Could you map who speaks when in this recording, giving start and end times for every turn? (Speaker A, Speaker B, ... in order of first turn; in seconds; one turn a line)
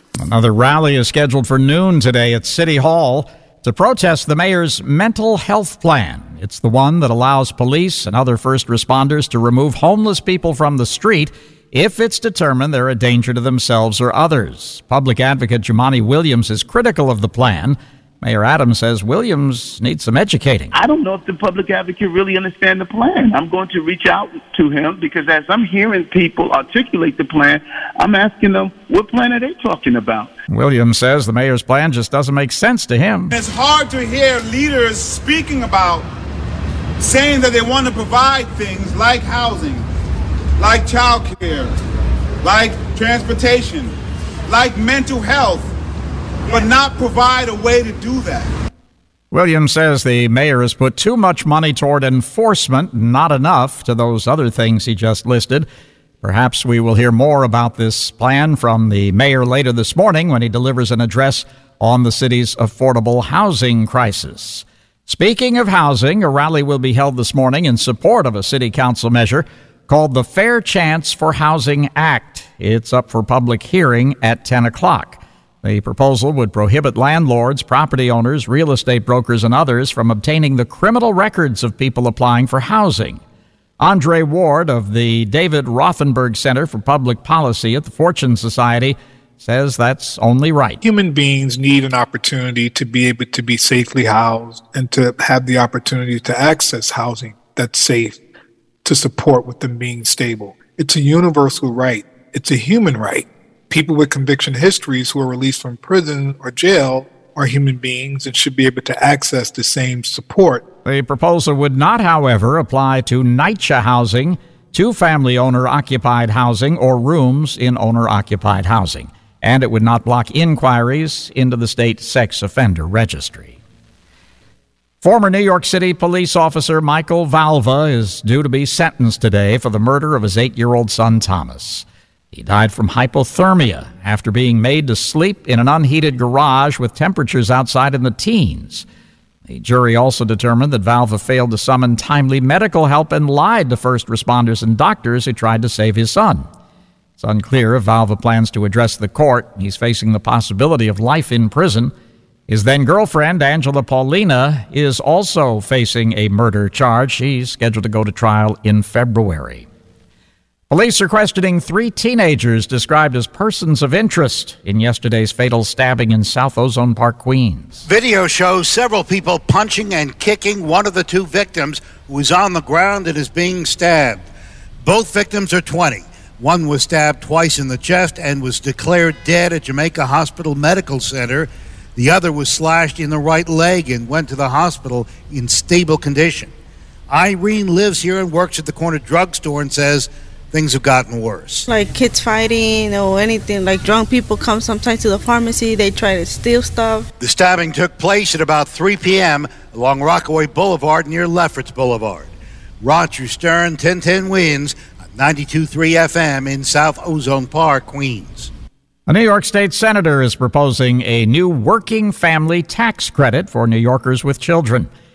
Speaker A: 0.2-20.7
Speaker B: 20.7-30.3
Speaker A: 30.5-33.3
Speaker C: 33.3-36.1
Speaker C: 37.0-39.8
Speaker C: 40.6-41.7
Speaker C: 42.4-43.9
Speaker C: 44.5-45.7
Speaker C: 46.5-48.5
Speaker A: 49.3-55.7
Speaker A: 56.2-83.2
Speaker A: 83.8-90.8
Speaker D: 90.8-98.2
Speaker D: 98.8-110.6
Speaker A: 110.8-123.6
Speaker A: 125.0-138.8
Speaker A: 139.5-146.5
Speaker A: 147.2-151.9
Speaker A: 152.5-159.7
Speaker A: 160.7-167.8
Speaker E: 167.8-174.2
Speaker E: 174.8-186.5
Speaker E: 187.1-191.6
Speaker B: 191.7-192.5
Speaker F: 192.0-196.9
Speaker B: 193.1-197.0
Speaker E: 197.2-208.5
Speaker A: 209.1-214.9